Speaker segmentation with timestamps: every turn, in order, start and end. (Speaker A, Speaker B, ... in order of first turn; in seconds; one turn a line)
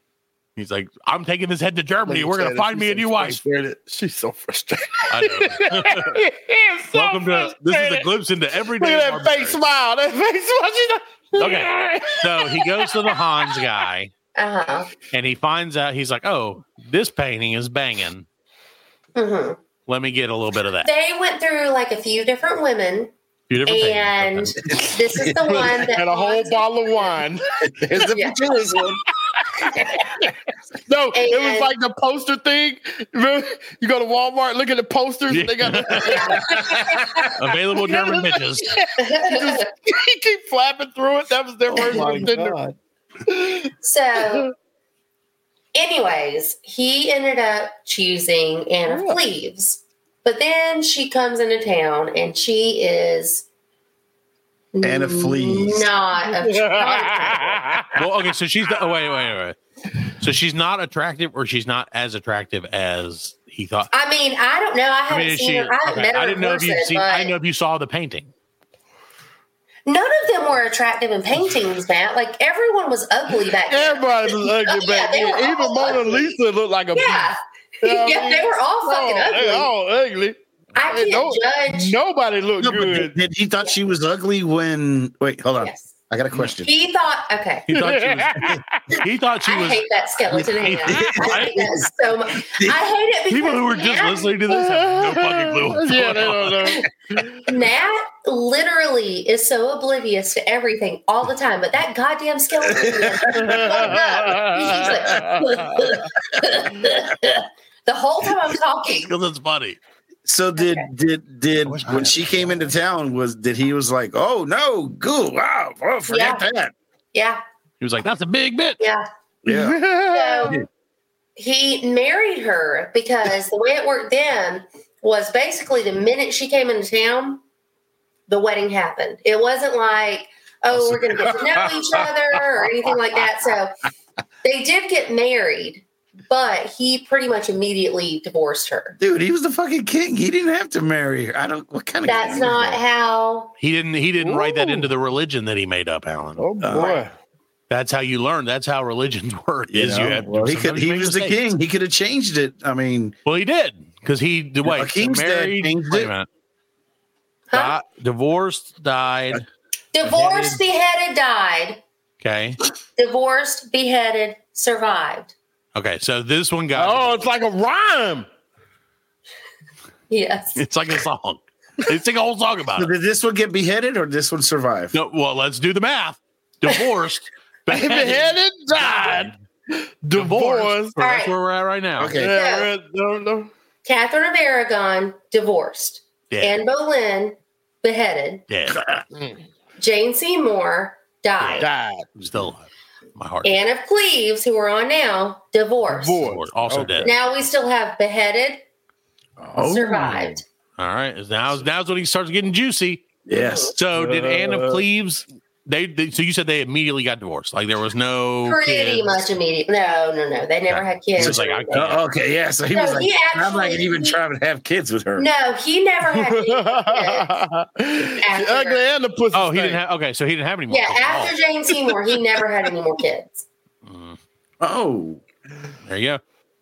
Speaker A: 0.6-3.4
Speaker B: 2.0-8.1
Speaker A: 5.1-6.2
Speaker A: 6.9-9.6
Speaker B: 8.7-13.8
Speaker A: 11.4-14.1
Speaker C: 14.4-14.9
Speaker A: 15.1-18.3
Speaker C: 19.1-19.6
Speaker A: 19.9-20.9
Speaker C: 20.8-23.1
Speaker A: 23.5-24.6
Speaker C: 23.7-27.1
Speaker D: 24.7-25.7
Speaker B: 25.4-27.4
Speaker D: 27.7-29.1
Speaker B: 30.9-42.6
Speaker C: 31.1-31.7
Speaker A: 35.3-36.4
Speaker C: 36.0-36.4
Speaker D: 36.5-37.2
Speaker A: 37.4-38.8
Speaker C: 39.0-39.6
Speaker D: 41.8-42.7
Speaker B: 43.3-44.5
Speaker C: 43.8-44.5
Speaker C: 45.8-53.5
Speaker B: 48.9-49.2
Speaker C: 54.7-57.6
Speaker D: 54.8-55.9
Speaker B: 56.3-58.1
Speaker A: 58.0-63.9
Speaker C: 63.9-67.3
Speaker A: 65.1-68.3
Speaker C: 69.9-76.3
Speaker B: 73.7-83.2
Speaker C: 77.0-79.7
Speaker C: 80.8-82.0
Speaker D: 82.6-86.7
Speaker C: 85.6-85.9
Speaker C: 86.6-87.7
Speaker A: 87.7-91.7
Speaker B: 87.7-88.9
Speaker C: 89.5-94.3
Speaker D: 90.3-91.9
Speaker D: 92.5-92.8
Speaker A: 93.3-96.8
Speaker B: 94.5-97.4
Speaker C: 97.4-109.1
Speaker D: 102.8-103.9
Speaker B: 103.3-105.9
Speaker A: 108.9-109.8
Speaker D: 110.3-116.7
Speaker C: 110.6-110.9
Speaker A: 111.6-112.5
Speaker C: 116.1-116.5
Speaker C: 117.1-117.4
Speaker A: 117.8-118.8
Speaker C: 118.8-119.1
Speaker D: 119.5-119.8
Speaker B: 119.5-120.6
Speaker C: 120.1-120.6
Speaker C: 121.4-127.4
Speaker C: 128.3-133.7
Speaker D: 130.7-132.0
Speaker C: 134.4-139.0
Speaker D: 139.0-142.8
Speaker C: 142.0-143.5
Speaker A: 143.6-146.5
Speaker B: 144.2-144.9
Speaker B: 146.4-147.1
Speaker D: 146.6-147.0
Speaker C: 146.7-147.1
Speaker A: 147.7-151.5
Speaker D: 149.7-153.2
Speaker A: 153.3-156.3
Speaker D: 154.6-156.1
Speaker C: 157.5-157.8
Speaker A: 157.5-159.4
Speaker C: 159.9-161.8
Speaker A: 160.0-160.6
Speaker A: 162.2-162.6
Speaker C: 163.0-165.3
Speaker A: 165.8-167.3
Speaker B: 166.7-168.3
Speaker C: 170.1-170.6
Speaker A: 170.6-172.9
Speaker D: 172.8-174.9
Speaker A: 174.9-179.3
Speaker B: 177.7-181.0
Speaker A: 180.2-182.2
Speaker C: 181.0-181.3
Speaker D: 182.0-182.3
Speaker B: 182.1-183.5
Speaker C: 182.2-182.7
Speaker C: 183.8-188.4
Speaker A: 186.3-186.6
Speaker A: 188.5-188.8
Speaker D: 188.7-189.0
Speaker B: 189.1-189.4
Speaker C: 189.8-191.7
Speaker A: 191.4-191.7
Speaker B: 191.6-192.1
Speaker A: 192.2-193.5
Speaker C: 193.4-196.3
Speaker B: 195.9-197.2
Speaker A: 196.2-197.1
Speaker C: 197.0-198.6
Speaker D: 199.4-200.4
Speaker C: 199.6-200.4
Speaker A: 200.8-203.1
Speaker D: 203.3-203.8
Speaker C: 203.4-203.7
Speaker A: 203.7-209.3
Speaker B: 203.9-204.8
Speaker C: 208.4-211.9
Speaker A: 210.7-212.0
Speaker D: 211.2-215.3
Speaker C: 212.7-214.2
Speaker C: 215.2-217.3
Speaker B: 216.1-219.8
Speaker C: 218.2-218.8
Speaker A: 219.3-221.3
Speaker C: 220.7-223.4
Speaker A: 223.9-224.2
Speaker D: 224.6-225.2
Speaker A: 225.9-226.2